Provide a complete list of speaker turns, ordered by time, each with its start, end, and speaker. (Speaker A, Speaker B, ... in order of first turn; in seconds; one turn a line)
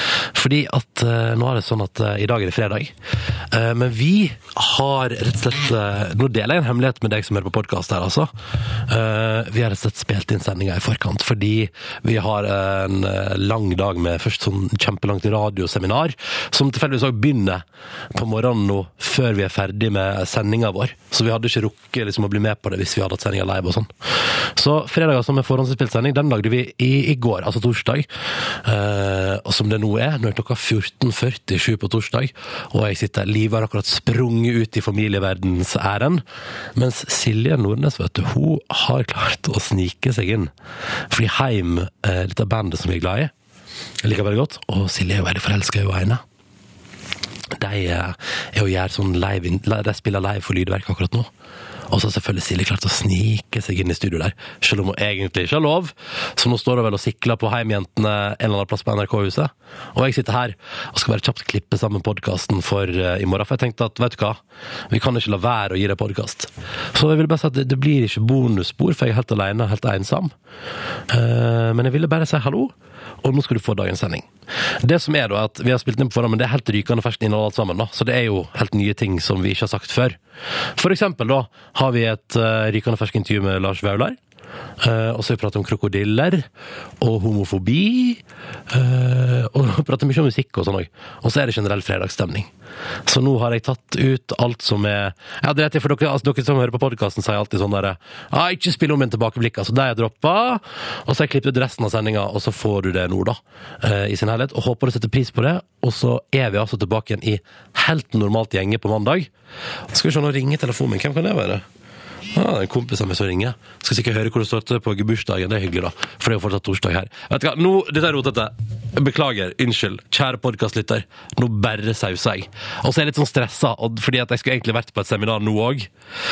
Speaker A: 0.3-2.9
Speaker A: 3.5-8.3
Speaker A: 8.9-23.9
Speaker A: 24.6-28.1
Speaker A: 28.6-36.2
Speaker A: 36.8-40.5
Speaker A: 41.1-43.3
Speaker A: 44.0-46.2
Speaker A: 47.6-51.3
Speaker A: 51.9-64.4
Speaker A: 64.9-70.3
Speaker A: 71.1-74.3
Speaker A: 74.8-80.2
Speaker A: 80.8-84.2
Speaker A: 84.8-86.5
Speaker A: 87.0-92.5
Speaker A: 93.1-109.3
Speaker A: 109.9-111.6
Speaker A: 112.3-125.9